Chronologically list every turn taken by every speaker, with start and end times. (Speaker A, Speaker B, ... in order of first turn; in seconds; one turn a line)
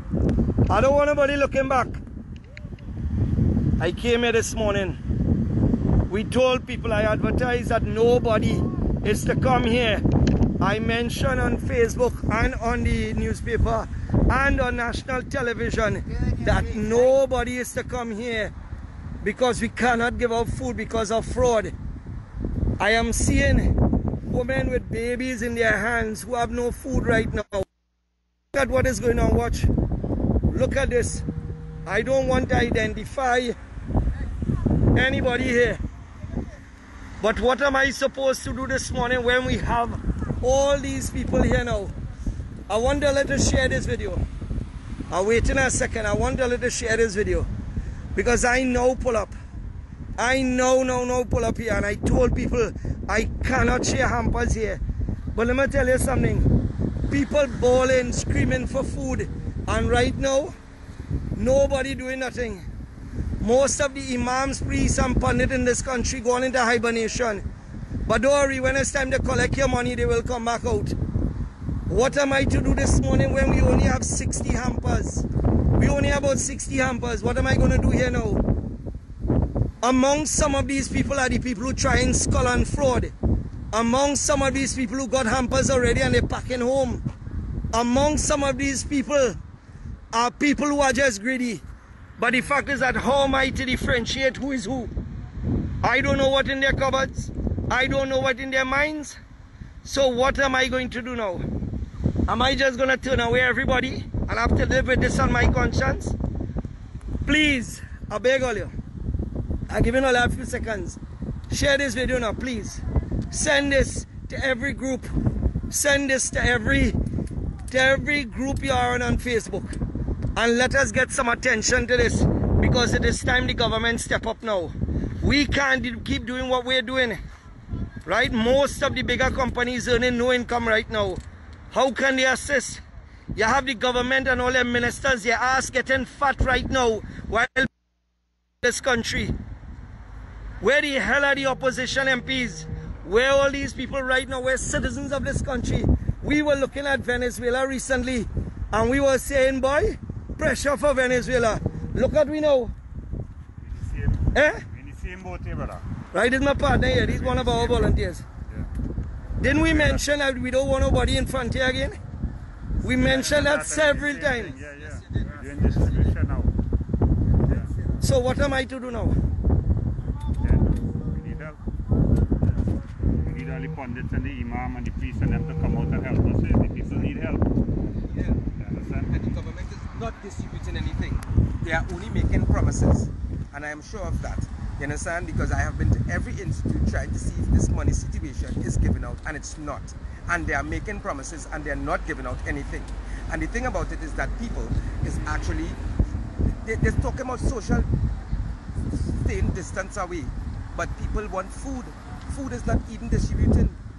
Speaker A: 0.7-2.0
Speaker A: 3.8-5.0
Speaker A: 6.1-10.0
Speaker A: 10.6-18.5
Speaker A: 19.2-21.7
Speaker A: 22.8-23.7
Speaker A: 24.3-27.7
Speaker A: 28.5-29.7
Speaker A: 30.5-31.2
Speaker A: 31.8-33.6
Speaker A: 34.9-35.8
Speaker A: 37.2-41.9
Speaker A: 42.7-44.2
Speaker A: 45.1-47.5
Speaker A: 48.1-49.3
Speaker A: 50.2-54.8
Speaker A: 55.3-56.5
Speaker A: 57.1-60.5
Speaker A: 61.4-62.6
Speaker A: 63.4-67.4
Speaker A: 68.0-71.0
Speaker A: 71.9-78.4
Speaker A: 79.8-83.1
Speaker A: 83.7-87.0
Speaker A: 87.7-89.4
Speaker A: 90.1-91.6
Speaker A: 92.2-94.9
Speaker A: 95.8-99.2
Speaker A: 99.8-101.4
Speaker A: 102.3-106.2
Speaker A: 107.2-108.7
Speaker A: 109.7-111.0
Speaker A: 111.5-115.1
Speaker A: 115.7-117.0
Speaker A: 117.7-119.7
Speaker A: 120.3-127.2
Speaker A: 128.0-131.2
Speaker A: 131.7-132.8
Speaker A: 133.3-137.7
Speaker A: 138.6-139.3
Speaker A: 140.6-152.7
Speaker B: 153.6-155.8
Speaker A: 154.3-154.6
Speaker A: 156.1-158.2
Speaker B: 156.9-157.8
Speaker A: 159.4-162.0
Speaker B: 159.7-160.0
Speaker A: 162.8-164.5
Speaker B: 163.0-166.5
Speaker C: 165.2-166.0
Speaker A: 168.0-169.2
Speaker B: 170.4-171.6
Speaker B: 173.2-177.4
Speaker C: 178.1-178.4
Speaker B: 178.6-179.1
Speaker C: 179.0-195.8
Speaker C: 196.5-197.9
Speaker C: 198.9-203.8